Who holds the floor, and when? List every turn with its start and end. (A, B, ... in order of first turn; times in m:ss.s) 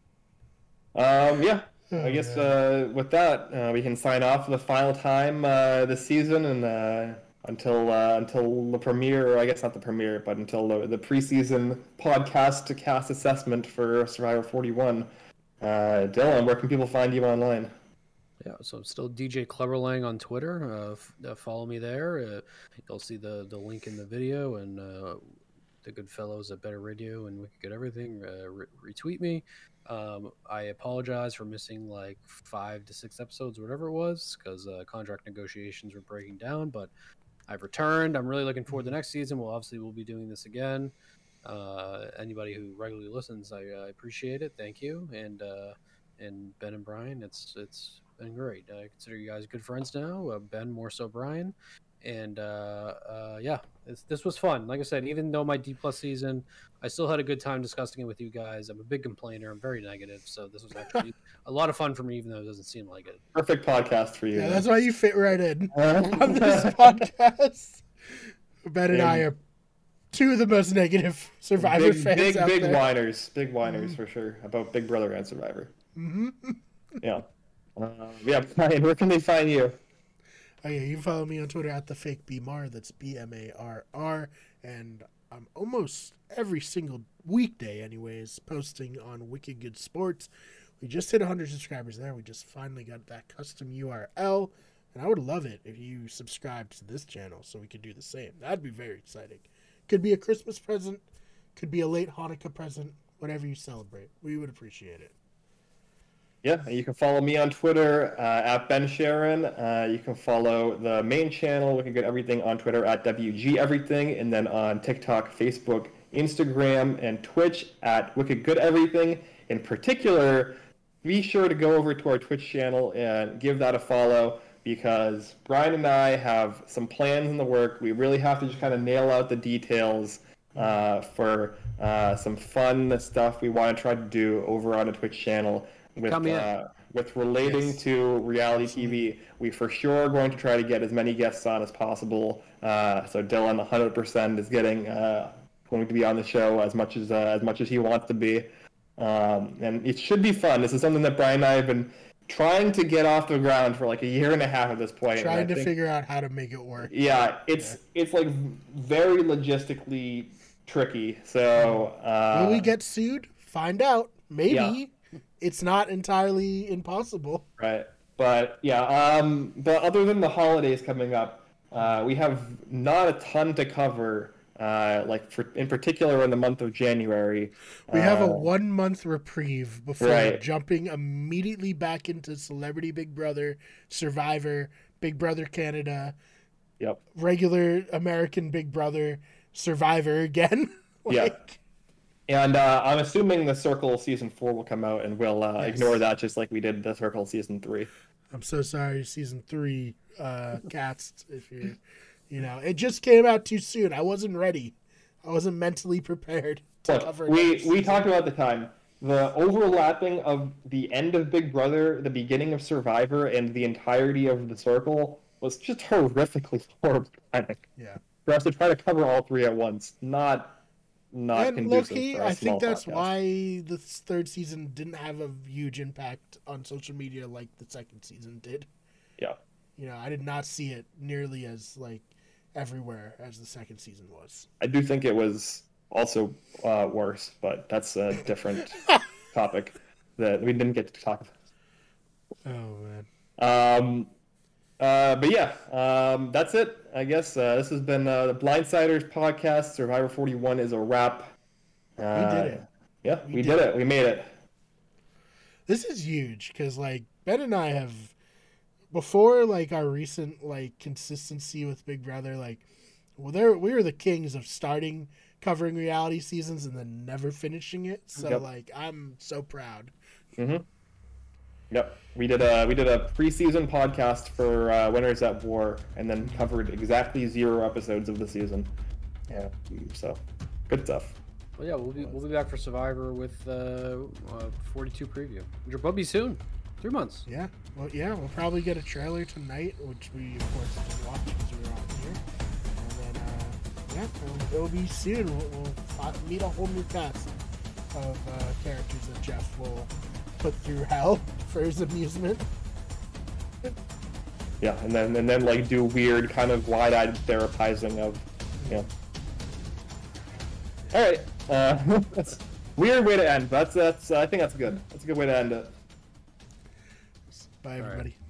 0:00.9-0:15.1 A
0:01.9-0:02.5 B
0:15.6-0:17.7 A
0:18.4-0:25.3 C
0:25.8-0:36.9 C
0:37.5-0:40.9 C
0:38.7-0:38.9 B
0:41.4-1:03.2 C
1:03.3-1:04.6 A
1:04.3-1:09.4 B
1:05.7-1:07.1 A
1:08.9-1:09.2 A
1:10.1-1:12.8 B
1:11.6-1:15.7 A
1:13.6-1:14.0 B
1:15.9-1:16.6 B
1:17.0-1:19.8 A
1:20.6-1:45.1 B
1:46.4-2:35.7 A
2:16.0-2:16.5 C
2:17.4-2:17.8 B
2:18.6-2:19.0 B
2:35.1-2:36.9 B
2:36.8-2:42.7 A
2:41.6-2:47.5 B
2:44.5-2:44.8 A
2:47.6-2:58.5 A
2:57.9-3:06.2 B
3:00.0-3:00.4 A
3:07.1-3:11.6 B
3:11.1-3:11.4 A
3:12.3-3:17.9 A
3:15.6-3:16.0 B
3:18.3-3:28.1 B
3:26.8-3:37.7 A
3:38.2-3:40.6 A
3:41.1-3:43.1 A
3:41.3-3:48.7 B
3:49.8-3:54.5 B
3:54.6-4:01.4 A
4:02.4-4:03.1 B
4:03.4-4:04.1 A
4:04.8-4:11.4 A
4:12.0-4:14.3 A
4:12.1-4:12.6 B
4:13.2-4:13.6 B
4:15.7-4:18.1 B
4:18.9-4:29.9 B
4:28.2-4:28.4 A
4:30.4-4:30.6 A
4:31.7-4:38.7 A
4:39.3-4:41.2 A
4:41.6-4:47.2 C
4:47.3-4:52.2 B
4:52.8-4:57.4 B
4:57.9-5:02.5 B
5:04.6-5:08.9 A
5:10.9-5:15.7 A
5:17.3-5:18.2 B
5:17.8-5:18.0 C